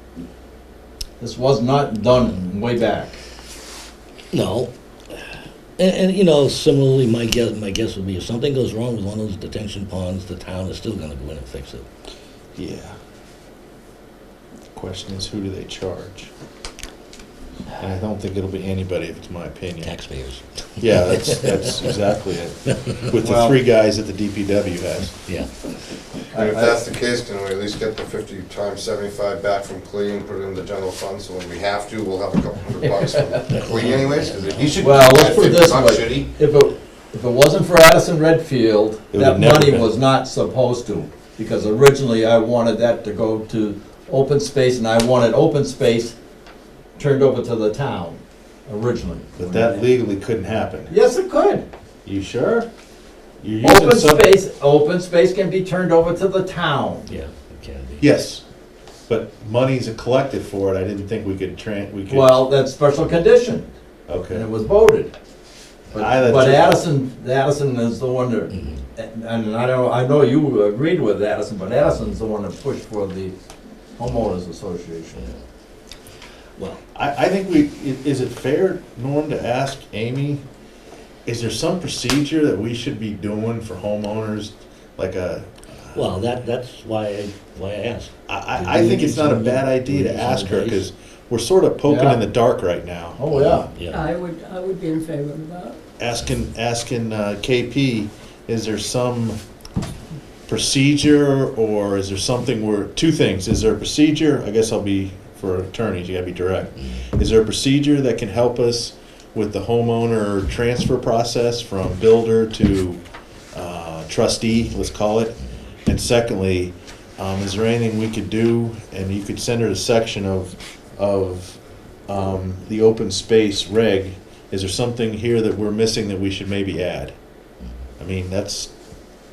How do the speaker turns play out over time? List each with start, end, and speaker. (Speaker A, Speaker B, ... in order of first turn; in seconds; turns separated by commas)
Speaker A: 1.2-3.2, Speaker B: 4.3-5.2, Speaker B: 5.8-11.9, Speaker C: 12.6-13.0, Speaker C: 14.7-16.3, Speaker C: 17.8-19.9, Speaker B: 19.8-22.0, Speaker C: 20.8-25.2, Speaker B: 22.8-23.0, Speaker A: 23.2-23.6, Speaker A: 26.3-26.8, Speaker D: 26.3-36.3, Speaker A: 33.0-33.4, Speaker B: 33.5-35.3, Speaker A: 34.8-46.2, Speaker C: 39.1-39.9, Speaker A: 47.0-49.9, Speaker C: 49.4-50.9, Speaker A: 50.9-51.6, Speaker C: 52.1-52.7, Speaker C: 53.4-54.4, Speaker A: 53.6-57.1, Speaker B: 57.1-58.1, Speaker C: 58.0-58.4, Speaker C: 59.1-62.4, Speaker A: 62.1-63.7, Speaker C: 64.1-64.5, Speaker A: 64.3-65.1, Speaker A: 65.9-73.3, Speaker C: 66.0-66.9, Speaker B: 68.5-68.8, Speaker A: 74.0-75.3, Speaker C: 76.9-80.4, Speaker C: 81.3-86.0, Speaker B: 85.9-90.8, Speaker C: 88.3-93.7, Speaker A: 91.9-92.2, Speaker A: 93.2-93.7, Speaker B: 93.7-94.0, Speaker E: 93.9-95.8, Speaker C: 96.0-99.4, Speaker C: 100.5-113.0, Speaker C: 113.5-127.2, Speaker C: 128.0-128.7